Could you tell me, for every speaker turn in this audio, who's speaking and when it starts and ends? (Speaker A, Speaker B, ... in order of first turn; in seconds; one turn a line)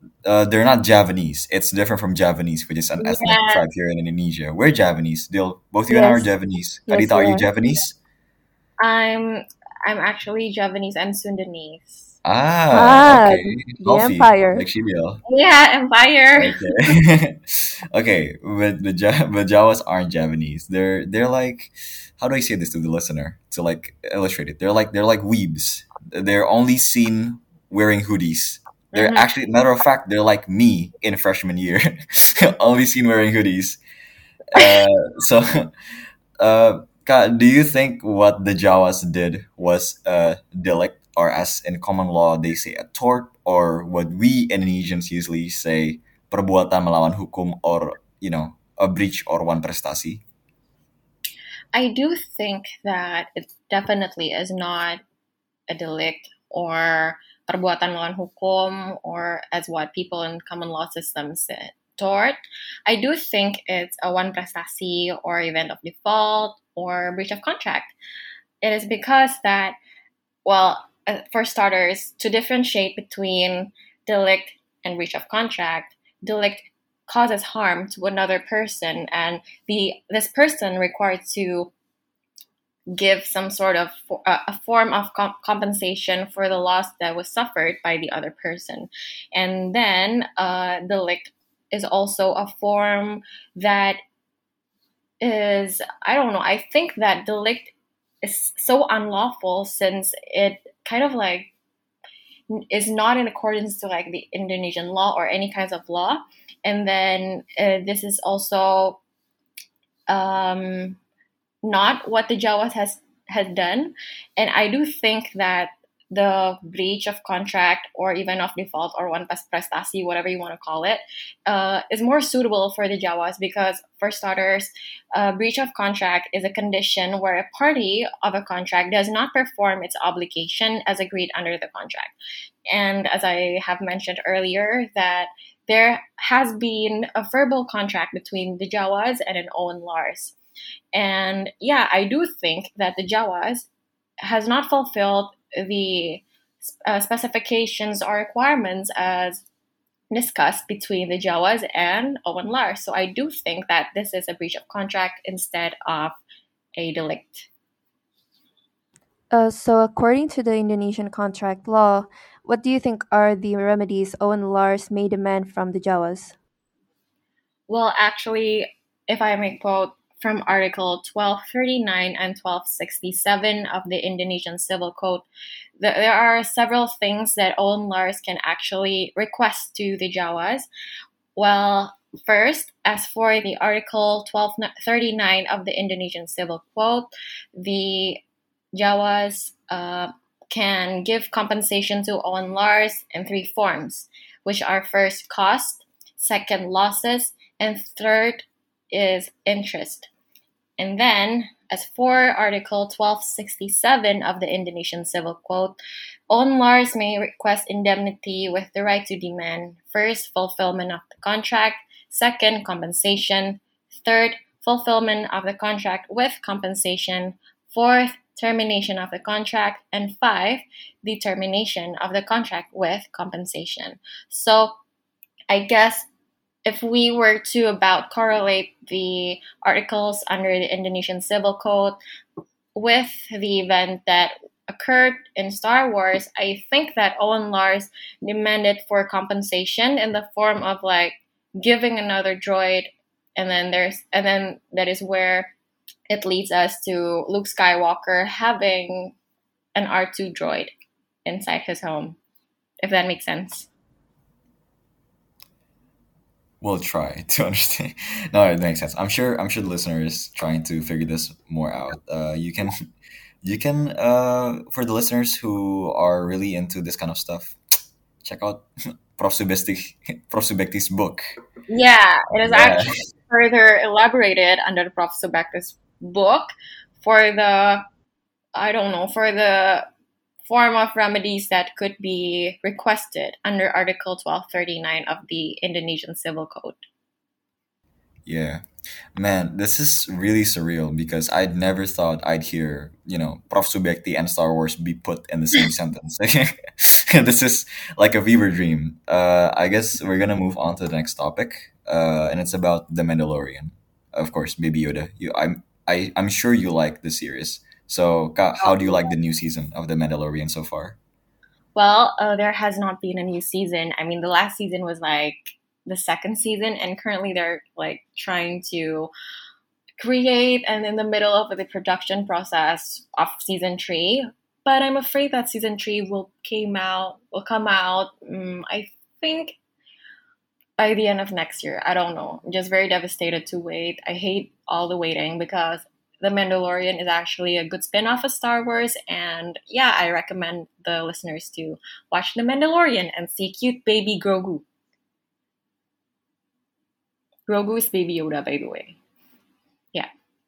Speaker A: 0.2-8.0
Speaker B: 3.0-3.6
Speaker C: 5.9-6.3
Speaker C: 6.9-7.5
Speaker B: 8.8-12.2
Speaker A: 12.2-15.2
Speaker C: 12.7-14.7
Speaker B: 15.3-17.0
Speaker A: 16.4-33.8
Speaker B: 28.9-29.3
Speaker A: 34.5-35.7
Speaker A: 36.4-50.2
Speaker B: 51.7-55.0
Speaker B: 55.7-68.0
Speaker B: 68.6-69.8
Speaker B: 70.5-81.7
Speaker B: 82.9-94.0
Speaker B: 95.2-101.5
Speaker B: 102.5-109.0
Speaker B: 110.1-111.0
Speaker B: 111.6-132.2
Speaker B: 132.7-140.3
Speaker B: 140.9-143.7
Speaker B: 144.2-149.4
Speaker B: 150.1-156.2
Speaker B: 156.8-157.5
Speaker C: 159.3-166.3
Speaker B: 167.7-175.3
Speaker B: 175.8-180.7
Speaker B: 181.4-188.2
Speaker B: 188.7-200.1
Speaker B: 200.8-205.8
Speaker B: 206.3-224.7
Speaker B: 225.5-226.1
Speaker B: 226.7-232.0
Speaker B: 232.8-245.5
Speaker B: 246.1-249.2
Speaker B: 249.8-250.7
Speaker B: 251.3-252.2
Speaker B: 252.8-253.7
Speaker A: 256.6-262.7
Speaker A: 263.4-267.6
Speaker A: 268.2-271.3
Speaker B: 271.7-277.8
Speaker A: 272.4-272.9
Speaker B: 278.6-279.9
Speaker B: 280.5-286.8
Speaker A: 288.3-288.6
Speaker A: 289.1-311.0
Speaker B: 308.6-309.0
Speaker B: 311.8-319.1
Speaker B: 320.0-329.6
Speaker B: 330.8-344.6
Speaker B: 347.5-349.0